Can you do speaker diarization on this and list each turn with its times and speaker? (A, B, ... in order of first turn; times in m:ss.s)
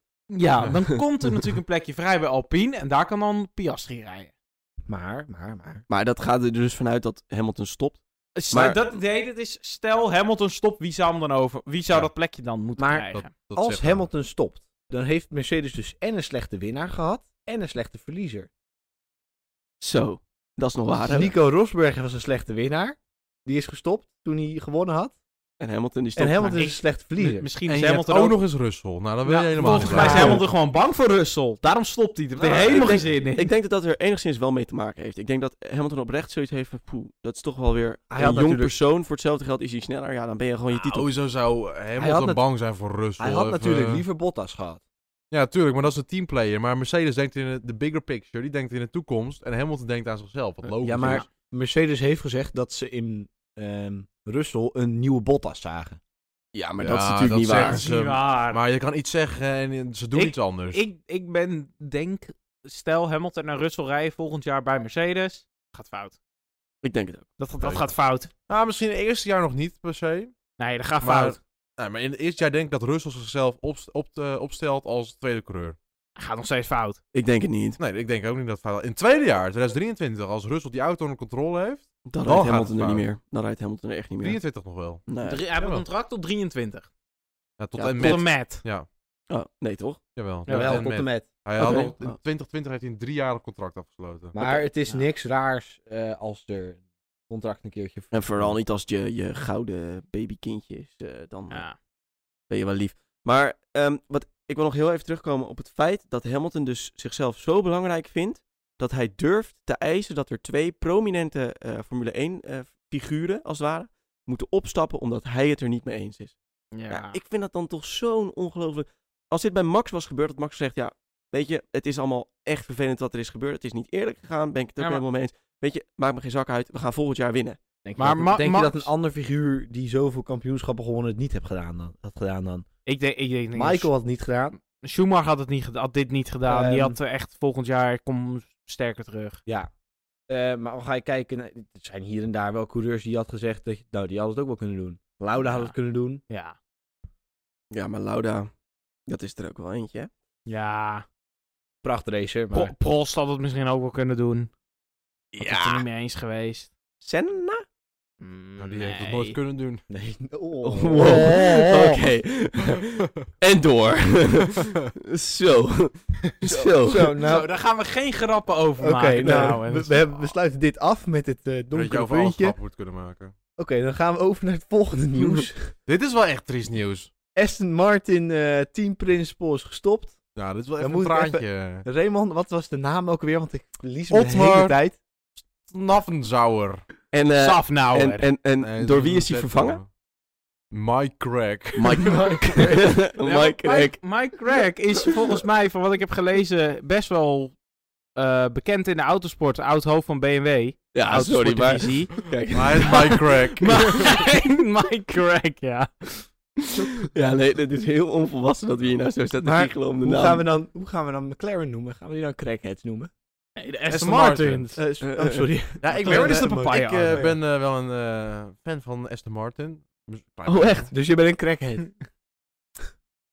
0:00.3-0:04.3 A
0:04.9-0:05.8 B
0:05.9-0:08.8 C
0:08.4-0:13.3 A
0:12.8-0:18.5 B
0:13.1-0:14.0 D
0:19.8-0:21.3 C
0:21.0-0:25.2 B
0:25.6-0:26.6 C
0:26.2-0:27.5 B
0:26.4-0:28.4 A
0:27.7-0:30.4 D
0:29.3-0:33.5 A
0:29.6-0:30.4 B
0:30.0-0:30.4 C
0:32.4-0:33.0 D
0:32.6-0:41.1 C
0:38.1-0:38.8 B
0:40.8-0:44.0 D
0:42.0-0:42.4 B
0:43.2-0:44.8 B
0:45.3-0:51.2 D
0:50.8-0:56.0 B
0:56.5-0:57.8 C
0:56.8-1:00.8 D
0:57.4-0:58.6 A
1:00.2-1:06.2 A
1:06.8-1:07.3 C
1:07.4-1:08.3 A
1:07.6-1:07.9 D
1:08.5-1:10.4 D
1:10.6-1:11.4 A
1:11.0-1:15.8 D
1:16.2-1:17.0 A
1:17.1-1:17.8 C
1:17.8-1:23.0 D
1:22.1-1:24.4 C
1:24.2-1:25.1 D
1:25.1-1:25.4 C
1:25.2-1:26.9 A
1:25.6-1:25.9 D
1:27.6-1:28.9 D
1:27.8-1:28.2 C
1:28.0-1:28.6 A
1:29.3-1:30.0 C
1:30.2-1:34.4 D
1:30.5-1:30.8 A
1:30.5-1:31.3 B
1:31.6-1:32.2 C
1:31.6-1:31.9 A
1:34.4-1:38.5 B
1:34.4-1:35.0 A
1:38.1-1:41.7 C
1:41.5-1:41.8 A
1:42.5-1:56.4 C
1:56.7-1:57.2 A
1:56.9-2:07.6 C
2:07.8-2:12.7 B
2:08.0-2:08.9 A
2:12.9-2:13.9 A
2:13.5-2:14.6 B
2:14.7-2:19.4 A
2:16.5-2:17.0 B
2:20.3-2:26.2 B
2:25.4-2:25.7 A
2:26.3-2:26.6 A
2:27.7-2:28.5 C
2:29.1-2:30.1 C
2:30.5-2:31.0 A
2:31.8-2:32.7 B
2:32.5-2:34.5 A
2:35.3-2:35.9 C
2:35.4-2:36.7 A
2:37.0-2:37.6 C
2:38.2-2:39.4 A
2:38.6-2:39.8 D
2:39.9-2:41.7 B
2:40.6-2:47.2 C
2:41.0-2:42.0 A
2:46.8-2:47.5 B
2:47.2-2:50.3 A
2:48.8-2:52.6 B
2:49.2-2:49.6 C
2:51.7-2:53.3 D
2:53.6-2:55.7 B
2:55.9-2:57.1 D
2:57.4-3:00.2 B
3:00.4-3:01.9 D
3:00.8-3:05.0 B
3:04.1-3:04.8 D
3:05.6-3:06.8 D
3:07.1-3:09.8 C
3:07.4-3:08.2 A
3:08.6-3:09.9 D
3:10.7-3:12.8 D
3:11.8-3:14.0 C
3:13.2-3:17.6 A
3:18.2-3:22.3 A
3:20.9-3:23.3 C
3:22.5-3:23.9 D
3:22.8-3:26.3 A
3:27.0-3:30.4 C
3:29.4-3:33.1 B
3:33.6-3:34.8 A
3:33.9-3:34.7 D
3:34.8-3:37.4 B
3:35.0-3:35.5 C
3:35.8-3:40.9 D
3:35.9-3:37.3 A
3:40.5-3:40.9 C
3:40.9-3:41.9 B